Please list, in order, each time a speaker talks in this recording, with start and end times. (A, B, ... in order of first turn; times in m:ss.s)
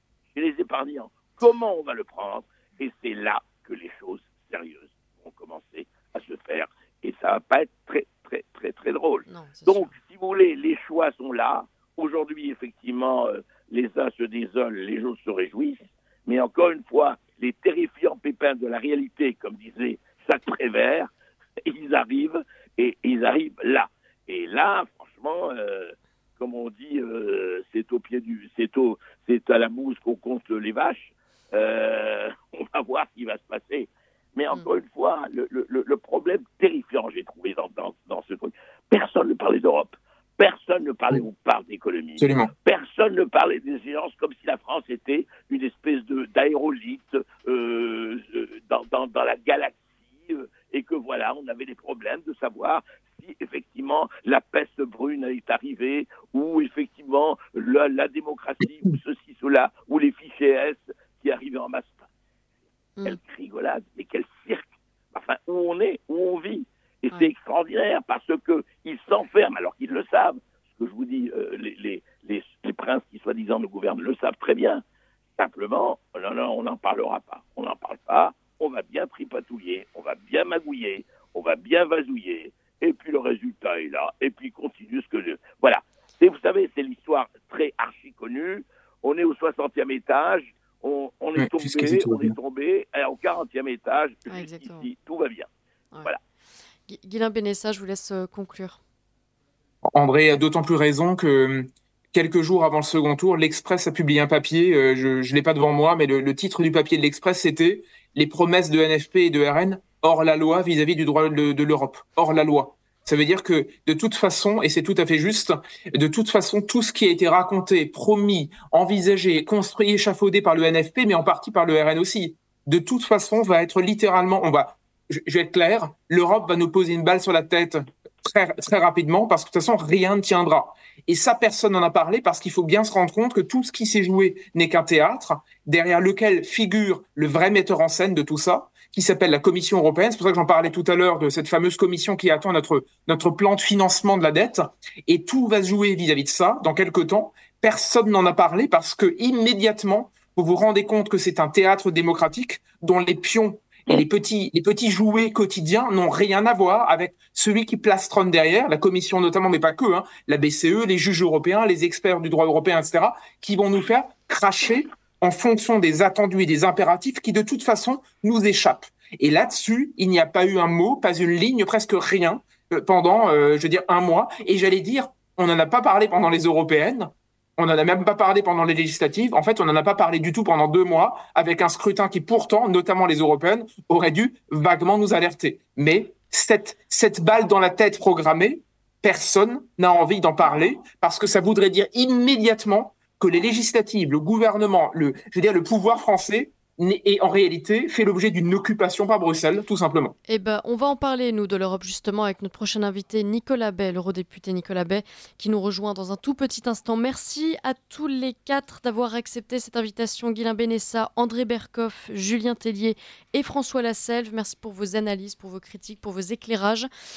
0:00.3-0:21.1 A
0:09.3-0:09.9 B
0:21.6-1:02.0 A
0:42.2-0:42.5 C
1:03.0-1:14.8 A
1:15.4-1:35.5 A
1:31.4-1:32.4 C
1:34.3-1:34.9 B
1:36.9-1:38.8 B
1:39.9-3:20.1 C
3:20.3-3:36.9 B